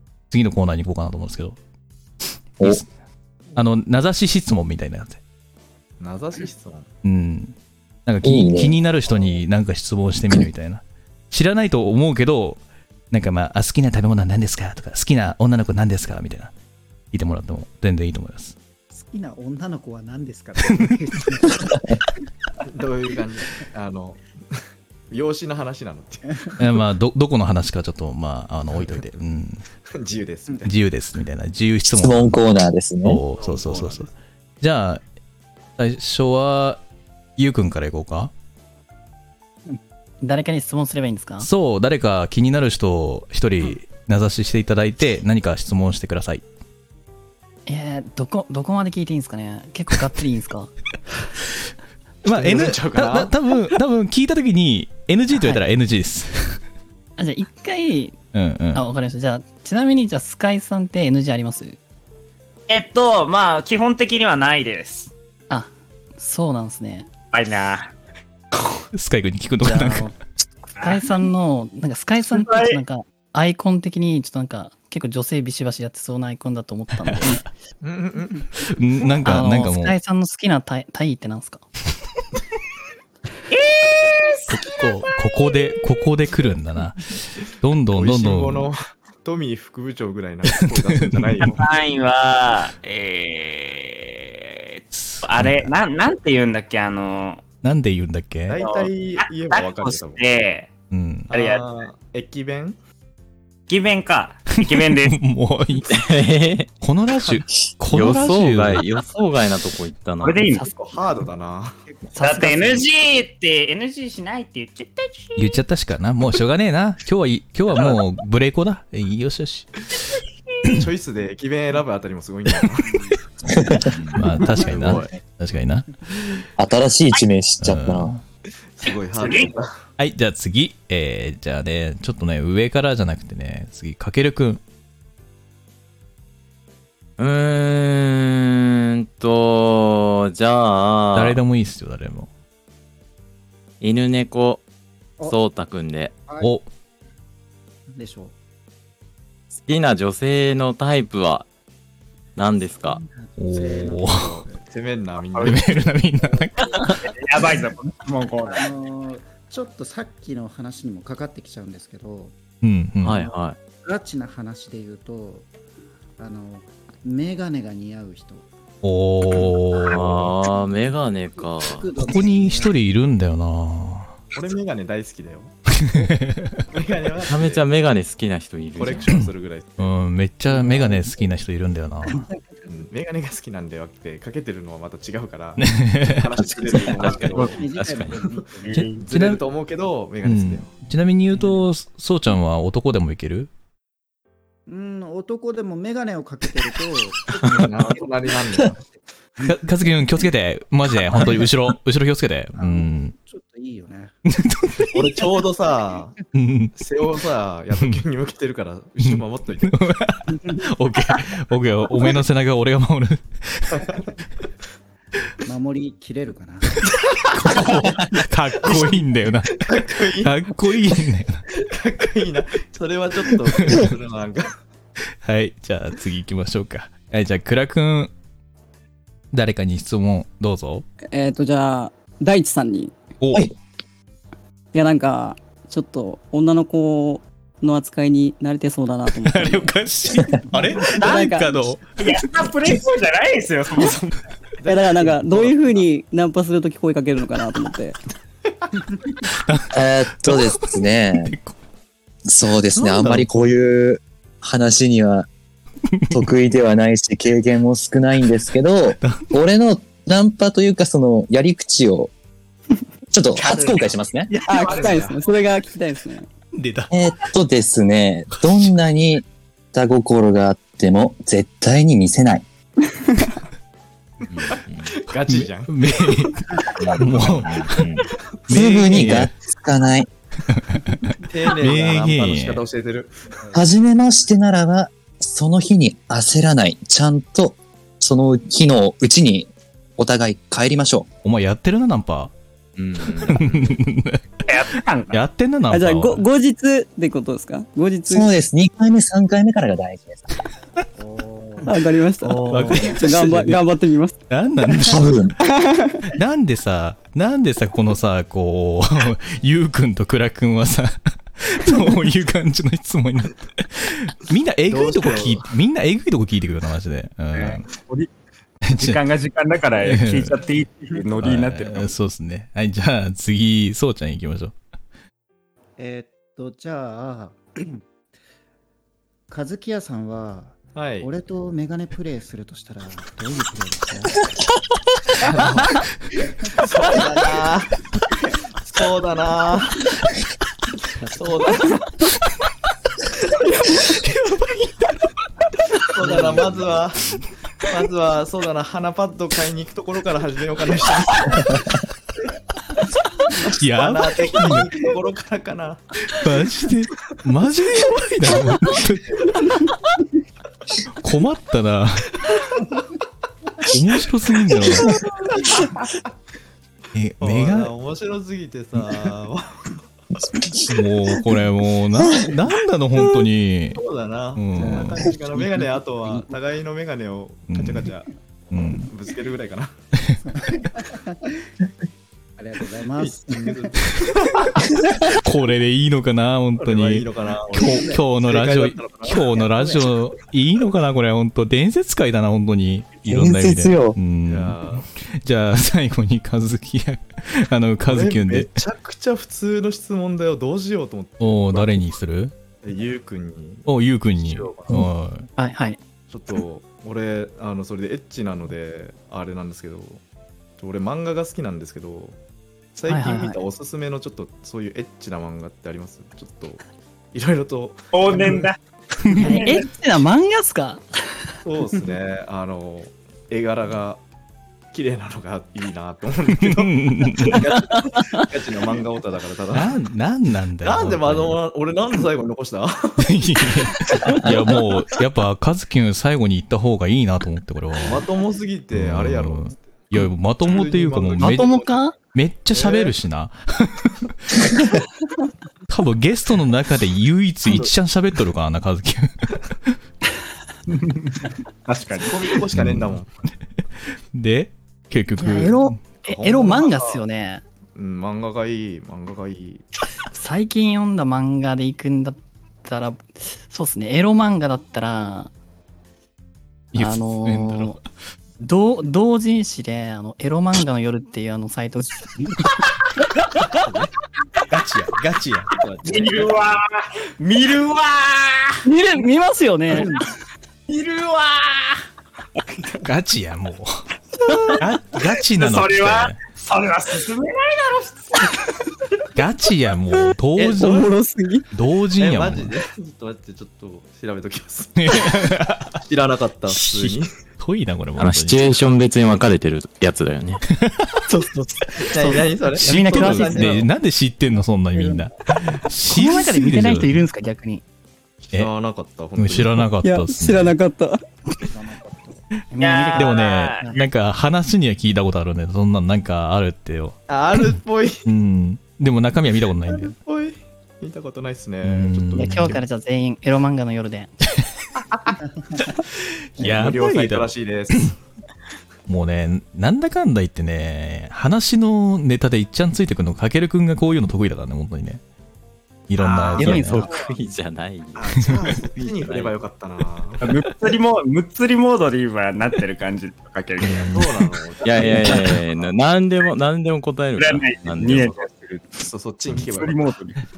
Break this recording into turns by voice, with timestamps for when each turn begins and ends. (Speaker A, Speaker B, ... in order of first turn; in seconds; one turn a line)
Speaker A: 0.3-1.6
Speaker A: 2.6-2.9
Speaker A: 3.5-5.2
Speaker B: 6.0-6.9
Speaker A: 7.0-7.5
Speaker A: 8.1-16.5
Speaker C: 8.2-8.8
Speaker A: 17.1-18.6
Speaker D: 18.9-22.0
Speaker A: 20.6-20.9
Speaker B: 22.7-26.2
Speaker A: 26.6-29.6
Speaker B: 28.8-29.1
Speaker B: 29.9-30.7
Speaker A: 30.6-32.4
Speaker C: 31.9-33.2
Speaker A: 33.0-34.1
Speaker B: 33.4-34.1
Speaker A: 34.6-35.0
Speaker A: 35.8-36.8
Speaker A: 37.4-38.3
Speaker E: 39.8-41.5
Speaker A: 41.4-46.4
Speaker E: 47.7-50.7
Speaker A: 52.2-56.6
Speaker B: 52.3-53.3
Speaker E: 55.4-55.6
Speaker E: 57.2-58.2
Speaker A: 58.3-58.8
Speaker E: 58.7-61.8
Speaker F: 62.7-65.1
Speaker E: 65.5-67.1
Speaker F: 67.3-67.9
Speaker A: 68.9-70.1
Speaker E: 69.6-70.2
Speaker F: 70.8-71.0
Speaker E: 70.8-77.4
Speaker F: 72.3-72.8
Speaker A: 77.1-77.4
Speaker B: 77.8-78.5
Speaker A: 78.6-80.0
Speaker E: 79.2-81.6
Speaker F: 83.5-85.4
Speaker A: 84.5-88.7
Speaker B: 87.9-91.7
Speaker A: 90.5-91.6
Speaker F: 91.4-97.4
Speaker A: 94.9-95.7
Speaker A: 97.6-98.6
Speaker B: 98.5-100.2
Speaker F: 98.6-100.7
Speaker A: 100.9-101.3
Speaker B: 101.3-102.8
Speaker F: 101.3-101.9
Speaker F: 103.7-105.2
Speaker A: 104.5-106.0
Speaker G: 105.8-106.7
Speaker A: 106.8-108.8
Speaker G: 107.9-110.5
Speaker F: 110.2-110.7
Speaker B: 110.6-111.8
Speaker E: 112.2-112.8
Speaker F: 112.2-115.6
Speaker A: 115.4-119.8
Speaker B: 120.7-123.0
Speaker D: 122.8-123.1
Speaker C: 123.5-123.8
Speaker G: 123.9-125.1
Speaker A: 124.1-125.9
Speaker D: 124.4-125.0
Speaker C: 126.6-128.2
Speaker A: 127.6-128.2
Speaker B: 128.7-129.8
Speaker F: 129.1-129.5
Speaker A: 130.0-134.6
Speaker G: 137.2-141.4
Speaker A: 141.2-142.3
Speaker G: 143.8-144.6
Speaker G: 145.2-146.1
Speaker D: 146.3-146.5
Speaker A: 146.4-146.7
Speaker D: 147.9-148.3
Speaker G: 149.6-151.5
Speaker G: 152.4-153.0
Speaker D: 152.6-154.6
Speaker A: 153.4-154.3
Speaker B: 154.0-155.9
Speaker F: 155.3-155.6
Speaker A: 155.4-156.7
Speaker D: 156.2-156.8
Speaker F: 156.6-158.7
Speaker D: 158.4-162.3
Speaker A: 162.6-163.2
Speaker G: 163.0-163.6
Speaker D: 163.8-165.5
Speaker D: 166.2-168.5
Speaker A: 168.8-170.0
Speaker G: 169.9-171.9
Speaker B: 170.0-170.3
Speaker D: 170.3-172.7
Speaker A: 172.0-174.1
Speaker B: 174.3-175.5
Speaker A: 175.7-176.6
Speaker B: 176.7-177.6
Speaker G: 177.3-179.1
Speaker B: 178.8-179.9
Speaker A: 179.1-182.2
Speaker D: 180.5-181.2
Speaker B: 182.7-187.6
Speaker A: 185.6-186.3
Speaker D: 186.6-188.8
Speaker F: 187.0-187.6
Speaker G: 187.7-188.2
Speaker F: 188.6-189.1
Speaker A: 188.8-189.4
Speaker B: 189.0-190.7
Speaker A: 190.2-193.5
Speaker D: 191.3-191.6
Speaker D: 194.7-199.6
Speaker B: 197.4-198.8
Speaker A: 199.4-203.2
Speaker D: 202.6-204.1
Speaker A: 204.3-205.2
Speaker B: 204.9-206.2
Speaker A: 206.3-206.8
Speaker B: 206.8-209.8
Speaker A: 207.8-208.0
Speaker A: 209.0-213.9
Speaker B: 213.8-214.1
Speaker D: 215.4-216.9
Speaker A: 217.4-219.7
Speaker D: 217.5-217.9
Speaker B: 218.7-218.9
Speaker B: 219.5-220.4
Speaker A: 220.2-221.4
Speaker B: 221.5-224.5
Speaker A: 223.5-223.8
Speaker A: 225.2-228.1
Speaker A: 229.3-230.9
Speaker H: 231.1-233.0
Speaker A: 233.2-233.5
Speaker H: 234.7-239.8
Speaker A: 239.2-242.7
Speaker F: 240.9-241.4
Speaker H: 241.0-241.6
Speaker F: 242.0-244.2
Speaker B: 244.6-245.8
Speaker H: 244.7-248.0
Speaker A: 249.3-250.6
Speaker C: 249.7-251.3
Speaker A: 251.2-251.6
Speaker C: 252.3-255.3
Speaker A: 252.7-253.3
Speaker A: 255.9-256.3
Speaker C: 256.1-262.1
Speaker C: 263.1-264.3
Speaker F: 263.4-263.9
Speaker H: 264.4-266.3
Speaker B: 264.5-265.2
Speaker F: 264.5-264.9
Speaker A: 266.6-266.9
Speaker C: 266.9-272.4
Speaker A: 268.3-268.7
Speaker G: 274.3-274.9
Speaker B: 274.3-275.8
Speaker A: 275.3-277.9
Speaker G: 276.8-278.1
Speaker A: 278.5-279.3
Speaker C: 278.5-280.1
Speaker A: 280.5-282.6
Speaker B: 281.2-283.1
Speaker C: 283.5-291.1
Speaker A: 291.2-292.3
Speaker G: 292.8-293.8
Speaker A: 293.3-294.2
Speaker F: 294.4-295.2
Speaker A: 295.1-296.2
Speaker H: 295.7-298.3
Speaker C: 298.1-300.3
Speaker D: 301.0-301.7
Speaker H: 301.6-304.2
Speaker A: 302.4-303.6
Speaker A: 304.3-305.3
Speaker C: 304.9-305.3
Speaker H: 305.4-306.0
Speaker A: 306.1-317.6
Speaker B: 314.7-315.5
Speaker F: 317.3-318.1
Speaker A: 318.7-319.0
Speaker F: 318.7-321.9
Speaker A: 319.8-320.4
Speaker A: 321.2-324.6
Speaker D: 325.8-327.8
Speaker D: 329.3-334.3
Speaker B: 330.8-331.1
Speaker B: 335.2-335.8
Speaker B: 336.6-337.8
Speaker B: 338.6-339.8
Speaker D: 341.0-341.6
Speaker B: 341.1-341.7
Speaker A: 343.7-345.0
Speaker B: 345.9-347.1
Speaker D: 346.0-347.2
Speaker B: 347.7-351.6
Speaker A: 353.5-354.7
Speaker B: 353.7-355.8
Speaker A: 356.1-359.2
Speaker A: 361.0-362.2
Speaker B: 362.3-362.6
Speaker A: 363.7-365.0
Speaker B: 365.4-365.7
Speaker A: 366.9-367.7
Speaker B: 367.2-369.7
Speaker A: 370.7-373.8
Speaker B: 373.8-378.1
Speaker A: 374.4-375.1
Speaker D: 374.6-376.3
Speaker A: 377.5-377.9
Speaker A: 378.5-378.9
Speaker B: 378.9-379.8
Speaker D: 380.2-381.4
Speaker D: 382.4-383.8
Speaker B: 383.0-384.6
Speaker A: 385.2-398.5
Speaker B: 386.6-389.8
Speaker D: 387.6-388.0
Speaker D: 389.3-389.7
Speaker C: 393.1-394.0
Speaker B: 394.3-394.9
Speaker B: 397.8-402.0
Speaker A: 401.2-402.3
Speaker B: 402.6-404.8
Speaker A: 403.7-405.3
Speaker E: 405.4-405.8
Speaker B: 406.1-410.0
Speaker B: 410.6-412.2
Speaker B: 412.8-416.6
Speaker E: 412.9-413.4
Speaker B: 417.1-418.5
Speaker F: 417.9-418.6
Speaker F: 419.1-419.6
Speaker E: 419.2-420.8
Speaker B: 421.4-424.0
Speaker B: 424.7-429.8
Speaker A: 426.3-427.5
Speaker A: 429.5-431.4
Speaker B: 430.6-434.2
Speaker A: 433.0-438.1
Speaker B: 437.8-441.9
Speaker A: 438.7-441.6
Speaker E: 441.2-441.9
Speaker A: 442.1-444.6
Speaker B: 442.5-442.9
Speaker A: 445.7-449.8
Speaker F: 451.7-452.4
Speaker B: 452.0-453.1
Speaker A: 452.5-453.0
Speaker A: 454.1-455.8
Speaker E: 455.2-457.4
Speaker B: 456.1-457.0
Speaker B: 457.8-459.6
Speaker E: 460.1-465.3
Speaker A: 466.7-467.8
Speaker E: 466.8-467.8
Speaker E: 468.4-472.4
Speaker B: 473.5-473.9
Speaker A: 474.5-475.5
Speaker B: 475.5-476.4
Speaker F: 475.8-476.7
Speaker F: 477.2-478.6
Speaker E: 478.6-480.0
Speaker F: 480.7-481.8
Speaker A: 482.8-483.8
Speaker A: 484.6-486.2
Speaker F: 485.4-488.4
Speaker A: 489.1-490.8
Speaker B: 490.4-490.9
Speaker H: 490.6-491.5
Speaker A: 491.5-492.5
Speaker B: 492.0-497.1
Speaker A: 494.8-495.8
Speaker A: 496.5-498.4
Speaker G: 498.0-500.4
Speaker A: 500.5-501.0
Speaker E: 501.1-503.6
Speaker B: 501.8-503.7
Speaker A: 502.6-507.0
Speaker D: 504.7-505.1
Speaker E: 505.9-507.6
Speaker B: 508.3-509.7
Speaker A: 509.2-510.6
Speaker H: 509.8-511.0
Speaker D: 511.4-512.2
Speaker E: 512.5-513.8
Speaker F: 512.6-513.8
Speaker A: 513.0-519.9
Speaker B: 517.1-518.1
Speaker B: 519.7-522.6
Speaker A: 521.6-522.6
Speaker E: 522.2-524.1
Speaker A: 525.6-527.9
Speaker B: 526.4-528.0
Speaker A: 528.9-535.0
Speaker A: 535.9-536.9
Speaker F: 536.0-536.6
Speaker G: 536.4-539.4
Speaker E: 536.5-536.9
Speaker B: 536.8-537.2
Speaker B: 538.0-540.2
Speaker F: 540.2-544.1
Speaker A: 543.6-544.2
Speaker B: 543.8-545.7
Speaker G: 544.6-548.1
Speaker F: 547.2-548.8
Speaker B: 547.8-549.9
Speaker F: 549.4-550.2